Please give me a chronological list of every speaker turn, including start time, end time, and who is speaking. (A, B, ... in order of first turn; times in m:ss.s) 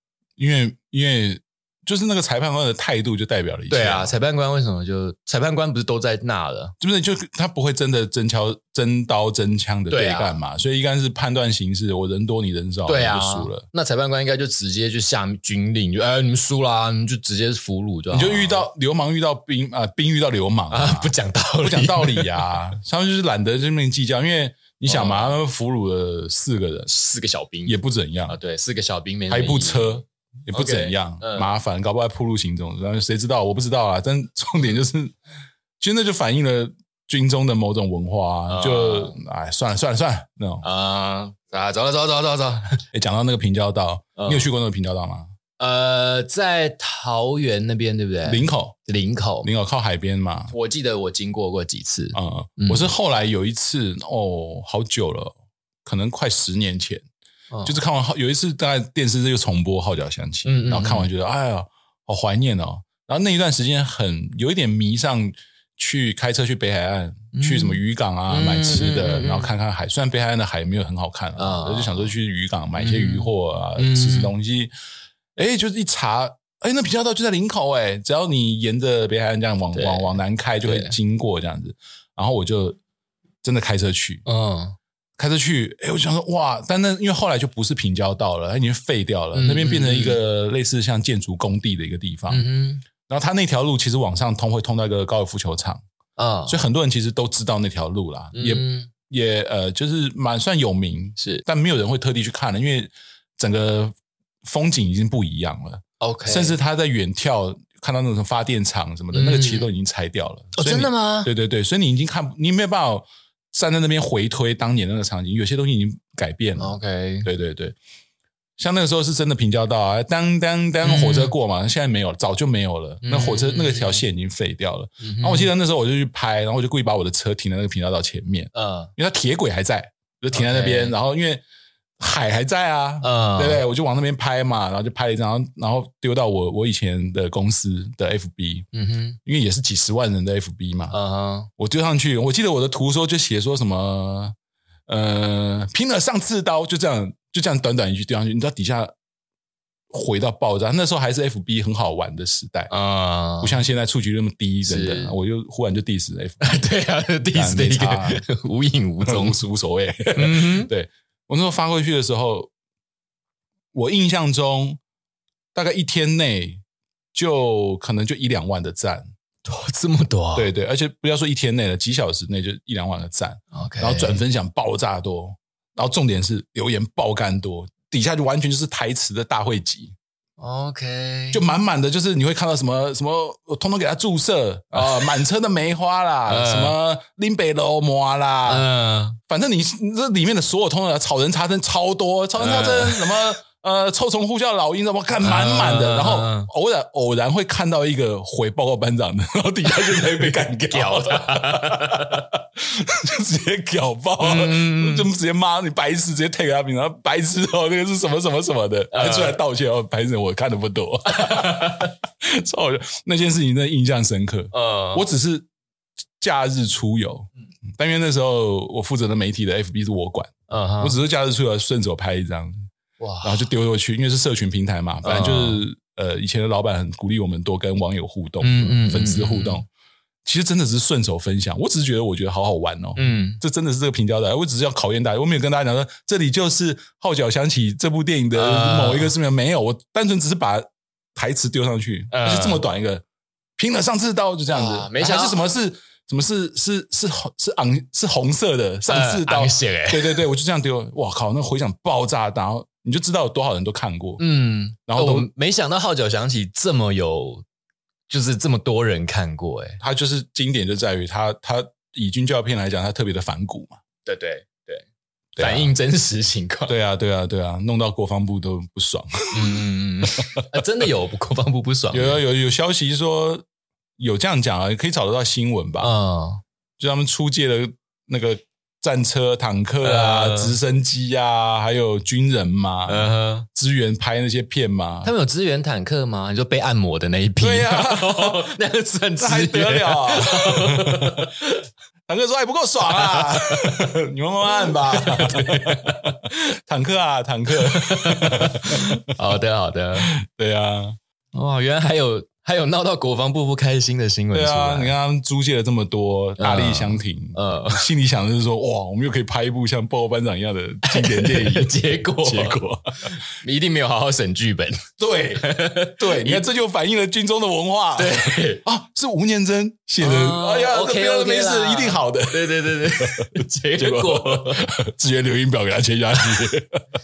0:00.4-0:04.1 A
0:03.7-0:06.7 B
0:06.8-0:13.6 A
0:09.9-0:10.4 B
0:12.8-0:18.6 B
0:18.1-0:26.9 A
0:20.7-0:22.5 B
0:24.9-0:25.4 B
0:26.9-0:27.8 B
0:27.7-0:28.4 A
0:28.3-0:31.5 B
0:29.3-0:35.2 A
0:35.8-0:40.6 A
0:38.5-0:39.2 B
0:40.6-0:42.8 B
0:42.9-0:45.3 A
0:44.2-0:44.5 B
0:45.6-0:49.5 B
0:48.2-0:48.8 A
0:49.4-0:50.5 A
0:50.5-0:52.9 B
0:52.1-0:57.0 A
0:57.5-0:57.8 B
0:57.6-1:14.7 A
1:00.4-1:01.1 B
1:07.3-1:09.5 B
1:11.4-1:12.1 B
1:12.8-1:14.3 B
1:15.4-1:22.8 A
1:19.7-1:21.0 B
1:23.4-1:24.2 A
1:24.2-1:24.8 B
1:25.2-1:32.4 A
1:29.3-1:30.2 B
1:32.3-1:32.8 B
1:33.1-1:35.8 A
1:36.2-1:36.6 B
1:36.5-1:56.7 A
1:38.3-1:38.9 B
1:41.2-1:41.4 B
1:46.0-1:46.6 B
1:49.1-1:49.7 B
1:50.6-1:51.3 B
1:56.6-1:57.3 B
1:57.2-1:57.8 A
1:58.6-2:11.4 A
2:00.8-2:01.3 B
2:03.0-2:04.0 B
2:05.0-2:05.5 B
2:08.5-2:08.9 B
2:10.3-2:11.0 B
2:12.0-2:18.7 A
2:13.0-2:13.6 B
2:18.7-2:19.2 B
2:19.2-2:20.9 A
2:20.9-2:21.5 B
2:21.6-2:24.4 A
2:24.9-2:28.9 A
2:29.9-2:32.7 A
2:32.7-2:33.6 B
2:33.4-2:36.6 A
2:34.7-2:35.2 B
2:36.4-2:39.4 B
2:37.3-2:38.2 A
2:39.0-2:42.5 A
2:40.1-2:40.7 B
2:43.7-2:44.8 A
2:45.5-2:46.6 A
2:47.1-2:49.1 A
2:49.4-2:50.5 B
2:50.4-2:59.9 A
2:53.5-2:54.2 B
3:00.4-3:01.4 B
3:01.3-3:08.7 A
3:04.7-3:05.2 B
3:06.3-3:06.8 B
3:08.5-3:09.2 B
3:09.3-3:35.5 A
3:12.4-3:13.2 B
3:15.2-3:16.5 B
3:20.7-3:22.2 B
3:24.2-3:25.1 B
3:28.9-3:29.4 B
3:31.1-3:31.9 B
3:34.5-3:35.0 B
3:36.2-3:42.6 A
3:40.5-3:41.0 B
3:43.0-3:43.5 B
3:43.2-3:49.7 A
3:45.0-3:45.6 B
3:48.4-3:49.6 B
3:50.2-4:03.0 A
3:53.0-3:53.4 B
3:58.4-3:59.1 B
4:02.1-4:02.6 B
4:03.6-4:14.2 A
4:04.5-4:05.4 B
4:08.9-4:10.2 B
4:14.2-4:17.4 B
4:14.9-4:15.3 A
4:18.1-4:19.8 B
4:19.8-4:23.8 A
4:24.0-4:24.8 B
4:25.4-4:25.7 A
4:25.4-4:26.7 B
4:26.7-4:29.6 A
4:29.3-4:32.2 B
4:31.9-4:33.4 A
4:34.0-4:35.9 A
4:35.8-4:36.4 B
4:36.8-4:45.1 A
4:39.8-4:40.6 B
4:42.9-4:43.5 B
4:45.0-4:51.6 B
4:47.4-4:48.5 A
4:49.2-4:51.3 A
4:52.1-4:59.0 A
4:52.8-4:53.9 B
4:54.4-4:56.2 B
4:57.5-5:00.1 B
5:00.0-5:01.0 A
5:01.3-5:04.9 B
5:04.3-5:13.1 A
5:06.4-5:07.9 B
5:10.8-5:16.4 B
5:15.0-5:26.8 A
5:18.0-5:18.6 B
5:20.0-5:24.7 B